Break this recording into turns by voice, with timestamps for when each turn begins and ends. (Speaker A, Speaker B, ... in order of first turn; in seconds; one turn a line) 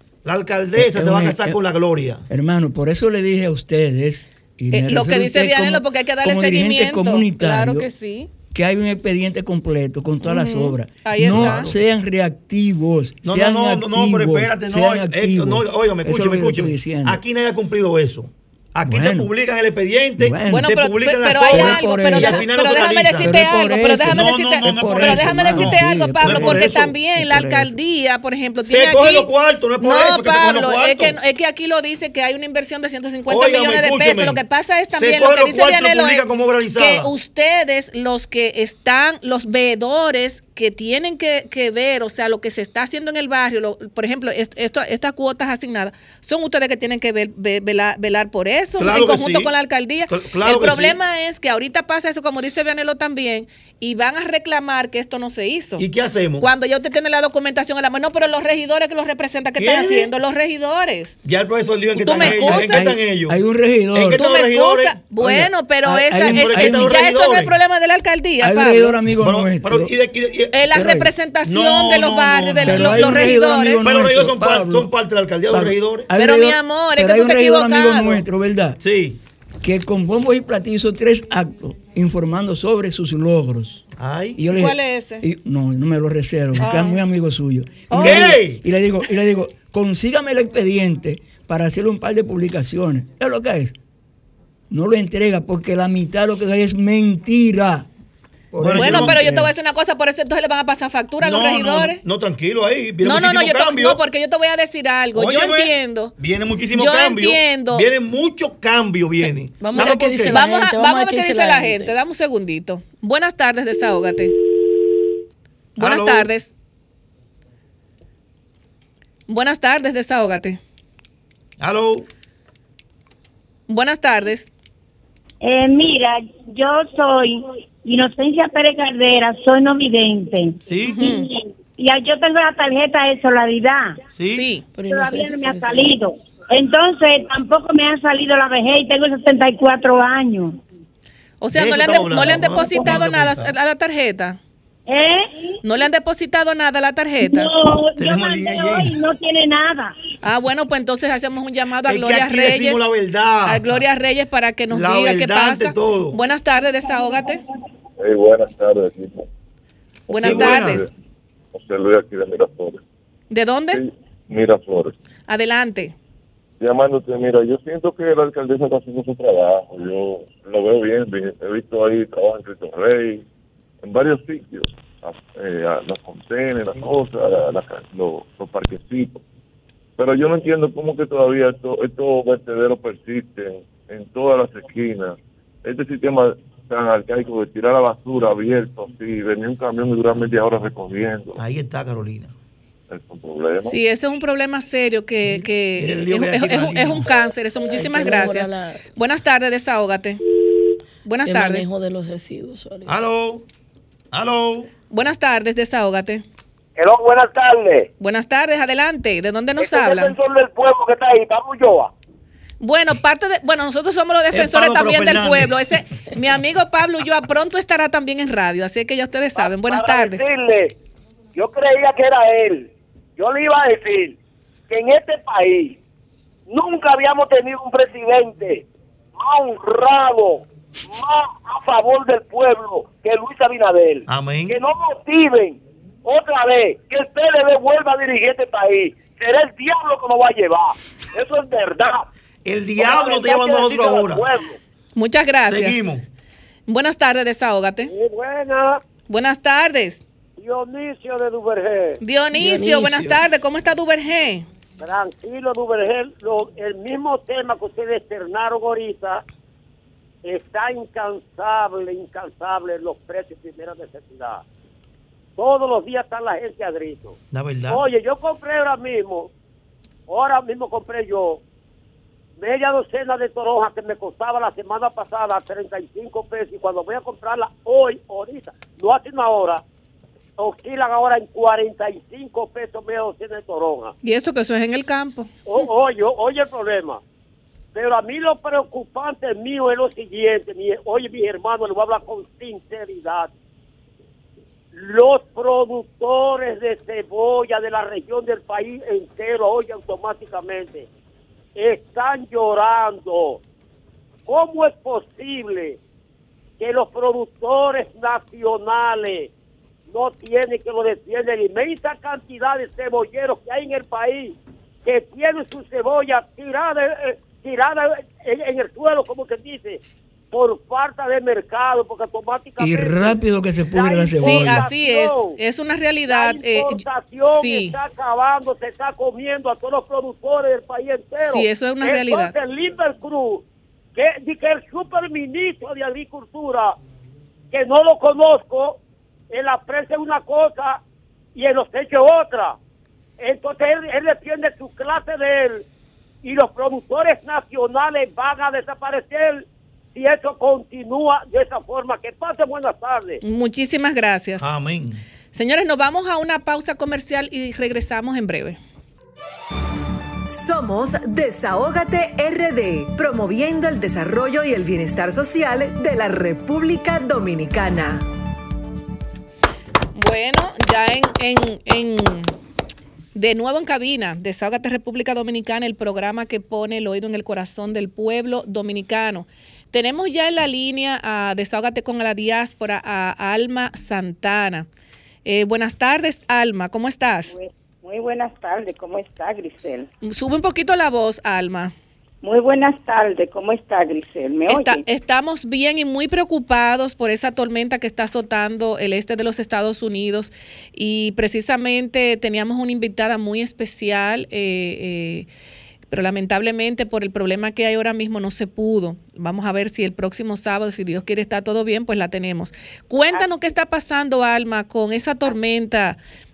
Speaker A: 0.2-2.2
Speaker B: 0.7-1.6
Speaker B: 2.3-7.9
Speaker C: 4.7-8.3
Speaker B: 8.5-17.2
Speaker C: 10.2-11.7
Speaker A: 11.2-11.7
Speaker A: 13.2-23.4
Speaker B: 18.8-19.3
Speaker B: 20.2-20.8
Speaker C: 20.5-29.3
Speaker B: 21.5-22.4
Speaker B: 23.1-27.8
Speaker A: 24.0-26.9
Speaker A: 28.6-31.2
Speaker C: 29.8-36.2
Speaker A: 33.3-34.4
Speaker A: 35.0-37.1
Speaker C: 36.8-55.8
Speaker A: 48.8-49.5
Speaker A: 50.1-51.0
Speaker A: 55.8-56.5
Speaker C: 56.4-61.1
Speaker A: 59.6-60.1
Speaker A: 61.2-63.4
Speaker C: 62.0-62.9
Speaker B: 62.1-64.2
Speaker A: 63.9-65.5
Speaker C: 64.2-69.0
Speaker B: 65.8-67.0
Speaker A: 66.3-67.5
Speaker B: 68.4-69.9
Speaker A: 69.1-70.7
Speaker C: 70.5-73.8
Speaker B: 70.7-71.1
Speaker A: 71.4-76.1
Speaker B: 72.6-74.9
Speaker B: 75.5-78.8
Speaker C: 76.2-78.2
Speaker A: 78.8-79.2
Speaker B: 79.6-83.8
Speaker A: 84.0-84.4
Speaker B: 84.3-93.7
Speaker C: 84.5-85.2
Speaker C: 86.6-87.0
Speaker C: 87.9-88.4
Speaker A: 88.0-88.6
Speaker B: 94.7-97.9
Speaker B: 98.5-99.5
Speaker A: 98.6-99.3
Speaker C: 98.7-102.0
Speaker A: 101.2-104.0
Speaker C: 103.0-106.1
Speaker A: 105.1-110.4
Speaker C: 106.7-107.9
Speaker D: 109.6-111.9
Speaker C: 109.7-114.3
Speaker C: 115.8-116.5
Speaker A: 115.8-116.3
Speaker C: 119.3-120.6
Speaker A: 121.6-122.0
Speaker C: 123.7-124.5
Speaker E: 125.4-134.0
Speaker A: 130.7-131.1
Speaker C: 130.8-131.3
Speaker A: 134.1-134.5
Speaker C: 134.3-134.6
Speaker D: 134.7-135.9
Speaker E: 134.9-140.6
Speaker C: 141.4-144.4
Speaker A: 141.5-143.5
Speaker E: 144.9-145.4
Speaker C: 145.6-147.5
Speaker E: 147.2-149.9
Speaker A: 148.0-149.0
Speaker C: 150.2-152.8
Speaker A: 151.8-153.8
Speaker C: 153.4-157.4
Speaker A: 154.7-156.2
Speaker F: 158.0-159.2
Speaker C: 160.1-160.9
Speaker F: 160.1-160.9
Speaker A: 160.2-160.8
Speaker F: 161.5-162.8
Speaker C: 163.3-163.8
Speaker F: 163.7-164.9
Speaker C: 165.3-165.9
Speaker F: 166.6-173.2
Speaker F: 173.8-179.2
Speaker F: 180.0-191.4
Speaker A: 191.3-192.3
Speaker F: 192.9-193.7
Speaker C: 193.7-200.2
Speaker A: 195.8-197.1
Speaker D: 197.7-198.8
Speaker C: 201.0-201.7
Speaker D: 201.2-202.9
Speaker A: 202.9-203.4
Speaker A: 204.1-204.7
Speaker C: 204.9-206.2
Speaker G: 206.8-207.9
Speaker C: 208.0-210.2
Speaker G: 209.6-211.9
Speaker C: 212.6-220.2
Speaker A: 214.3-215.6
Speaker G: 219.4-220.7
Speaker G: 221.3-224.2
Speaker G: 224.7-225.8
Speaker G: 226.5-228.6
Speaker G: 229.2-242.0
Speaker A: 234.1-234.6
Speaker A: 242.4-244.3
Speaker G: 242.8-244.6
Speaker C: 244.9-245.8
Speaker A: 245.5-246.0
Speaker C: 246.7-247.9
Speaker G: 247.8-248.8
Speaker C: 249.1-250.0
Speaker G: 250.4-252.0
Speaker C: 252.0-254.5
Speaker D: 252.3-253.2
Speaker G: 254.8-259.2
Speaker G: 260.2-264.4
Speaker G: 265.4-267.1
Speaker A: 267.3-267.8
Speaker G: 267.7-269.3
Speaker G: 270.1-271.4
Speaker G: 272.4-279.6
Speaker G: 280.4-283.9
Speaker C: 284.0-285.5
Speaker G: 285.4-287.0
Speaker G: 287.7-293.3
Speaker G: 294.7-300.9
Speaker G: 301.6-303.4
Speaker G: 304.3-305.8
Speaker G: 306.6-309.3
Speaker G: 309.9-319.8
Speaker G: 320.3-323.2
Speaker B: 322.6-324.7
Speaker G: 323.7-325.4
Speaker C: 324.2-327.7
Speaker G: 326.1-333.4
Speaker C: 331.2-332.3
Speaker G: 333.9-336.7
Speaker G: 337.5-338.8
Speaker G: 339.3-340.8
Speaker G: 341.3-342.5
Speaker G: 343.2-345.6
Speaker G: 346.2-353.2
Speaker C: 353.2-354.5
Speaker A: 354.4-355.0
Speaker C: 355.3-358.6
Speaker H: 360.3-368.1
Speaker C: 369.9-372.3
Speaker C: 373.1-384.7
Speaker C: 385.2-387.3
Speaker I: 387.3-389.9
Speaker C: 390.0-391.7
Speaker I: 392.2-394.8
Speaker C: 394.5-405.3
Speaker C: 405.9-416.0
Speaker I: 413.0-413.3